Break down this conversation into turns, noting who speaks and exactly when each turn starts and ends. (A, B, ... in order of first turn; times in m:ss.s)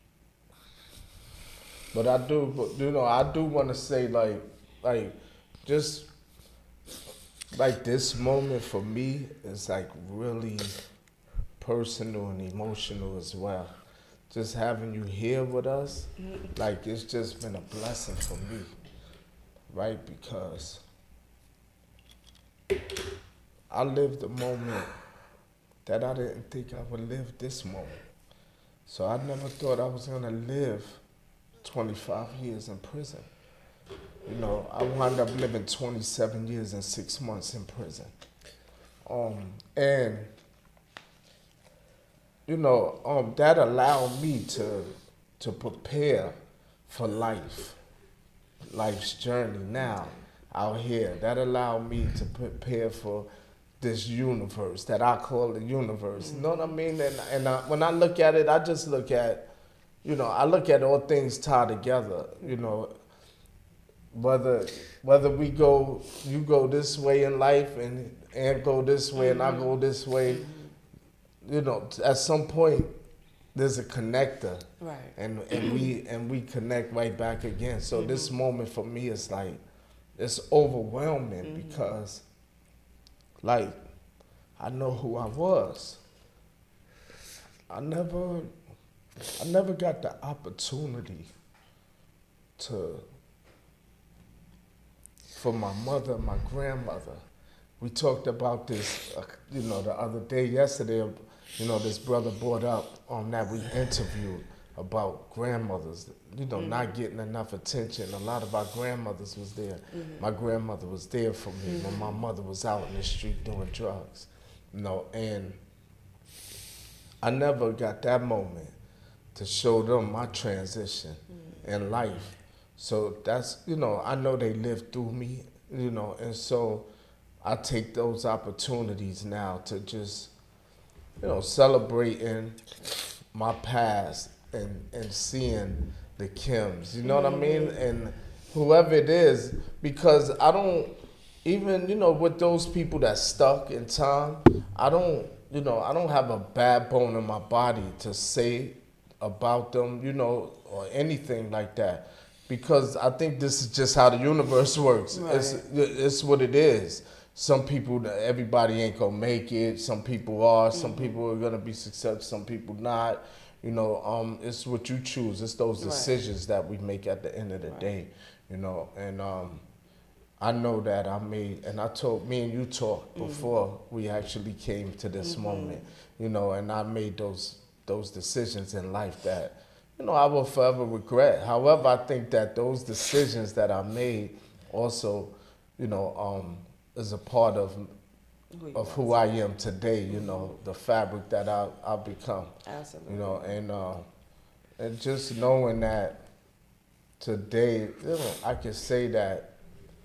0:01.9-0:06.1 A
0:07.5-0:10.8 A
0:11.6-0:13.7 A
0:14.3-0:18.7 A
0:16.2-0:16.5 B
0:19.7-0:20.8 A
0:23.7-0:24.9 A
0:25.8-0:28.0 A
0:28.9-0:31.0 A
0:31.6-0:33.3 A
0:34.3-0:38.1 A
0:39.0-0:40.3 A
0:42.4-0:47.8 A
0:48.6-0:53.3 A
0:53.8-0:59.5 A
0:56.2-0:56.6 B
1:00.0-1:02.9 A
1:04.1-1:10.4 A
1:09.2-1:09.7 B
1:10.3-1:10.7 B
1:11.4-1:12.9 A
1:13.5-1:14.6 A
1:14.8-1:15.9 B
1:15.2-1:19.6 A
1:17.9-1:18.3 B
1:20.2-1:22.2 A
1:21.4-1:21.8 B
1:23.4-1:23.8 A
1:24.6-1:26.0 A
1:27.7-1:28.5 A
1:29.4-1:31.3 A
1:32.6-1:33.0 A
1:35.3-1:37.2 A
1:37.8-1:55.6 A
1:46.6-1:46.9 B
1:49.9-1:50.2 B
1:51.7-1:52.2 B
1:57.2-1:58.7 A
1:59.3-2:06.9 A
2:07.4-2:10.3 A
2:11.2-2:12.7 A
2:13.3-2:49.6 A
2:17.0-2:17.8 B
2:35.1-2:35.6 B
2:40.7-2:41.2 B
2:45.8-2:46.1 B
2:47.6-2:47.9 B
2:50.4-3:07.9 A
2:53.2-2:53.5 B
2:55.2-2:55.8 B
3:08.5-3:09.2 B
3:08.7-3:12.5 A
3:10.1-3:10.5 B
3:12.6-3:13.6 B
3:13.1-3:14.1 A
3:14.8-3:16.2 A
3:17.2-3:19.5 A